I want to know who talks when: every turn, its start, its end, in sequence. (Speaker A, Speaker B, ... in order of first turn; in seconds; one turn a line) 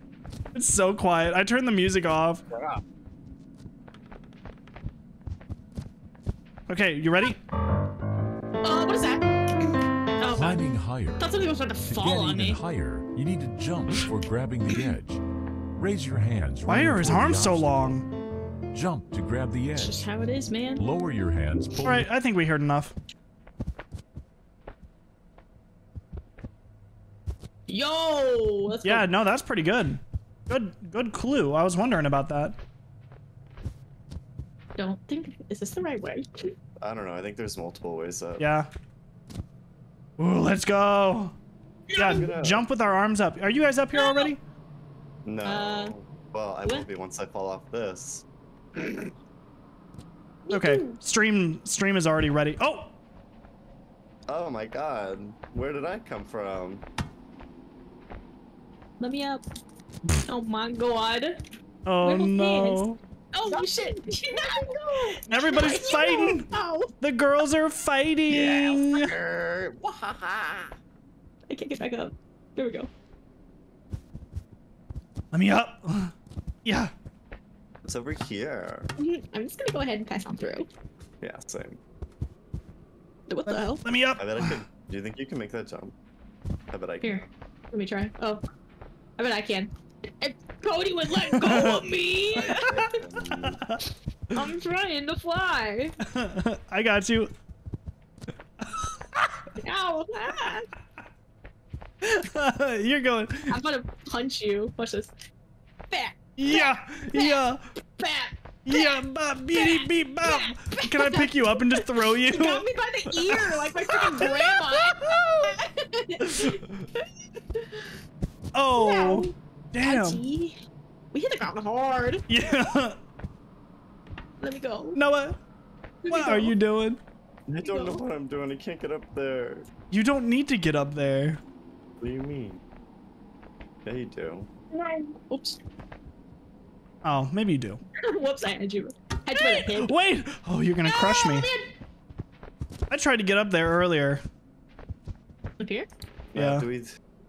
Speaker A: 0.5-2.4
Speaker B: 2.5-2.8
Speaker A: 6.7-7.4
Speaker C: 8.6-10.7
Speaker D: 10.2-11.3
Speaker C: 11.2-12.6
Speaker D: 11.9-15.2
Speaker D: 15.8-17.9
Speaker A: 16.7-18.0
Speaker D: 18.7-20.1
Speaker C: 19.8-20.8
Speaker D: 20.8-22.1
Speaker A: 21.8-22.9
Speaker C: 27.7-29.1
Speaker A: 28.8-32.6
Speaker C: 34.8-36.5
Speaker B: 36.8-38.4
Speaker A: 38.4-38.7
Speaker A: 40.2-41.3
Speaker C: 41.9-42.3
Speaker A: 41.9-44.4
Speaker B: 42.1-42.6
Speaker C: 43.9-44.3
Speaker B: 45.2-48.2
Speaker C: 45.4-45.9
Speaker C: 48.8-49.1
Speaker C: 50.5-51.0
Speaker A: 50.5-52.9
Speaker B: 54.3-56.8
Speaker C: 59.0-59.4
Speaker C: 60.3-61.4
Speaker A: 61.9-63.0
Speaker C: 62.0-66.9
Speaker A: 65.3-69.1
Speaker C: 68.4-69.1
Speaker B: 68.9-69.8
Speaker C: 69.8-70.7
Speaker C: 71.5-72.9
Speaker A: 75.3-76.1
Speaker A: 76.6-76.9
Speaker B: 77.8-78.9
Speaker C: 79.0-80.7
Speaker B: 81.2-81.8
Speaker C: 83.3-83.8
Speaker A: 83.5-84.6
Speaker B: 84.2-85.9
Speaker B: 86.7-87.2
Speaker C: 87.0-88.4
Speaker C: 89.2-93.0
Speaker A: 91.3-91.8
Speaker B: 92.4-93.6
Speaker A: 93.2-93.8
Speaker C: 94.3-96.0
Speaker A: 96.1-97.3
Speaker A: 98.6-99.4
Speaker C: 99.6-100.7
Speaker A: 102.0-103.5
Speaker C: 103.5-105.1
Speaker C: 105.9-109.0
Speaker A: 106.4-107.6
Speaker A: 108.7-115.5
Speaker C: 109.5-117.9
Speaker A: 116.2-116.6
Speaker A: 118.5-120.2
Speaker C: 118.8-120.5
Speaker C: 121.1-122.2
Speaker A: 122.3-123.0
Speaker C: 124.4-125.0
Speaker A: 124.9-125.4
Speaker C: 126.0-126.5
Speaker A: 126.1-127.0
Speaker B: 127.5-129.7
Speaker C: 127.6-128.0
Speaker A: 129.9-131.4
Speaker B: 132.0-132.6
Speaker B: 133.8-134.5
Speaker C: 134.7-135.6
Speaker A: 137.0-137.8
Speaker C: 138.0-139.9
Speaker A: 139.3-141.5
Speaker C: 140.8-141.7
Speaker A: 142.9-144.2
Speaker C: 145.6-145.9
Speaker B: 146.3-146.9
Speaker A: 146.3-146.7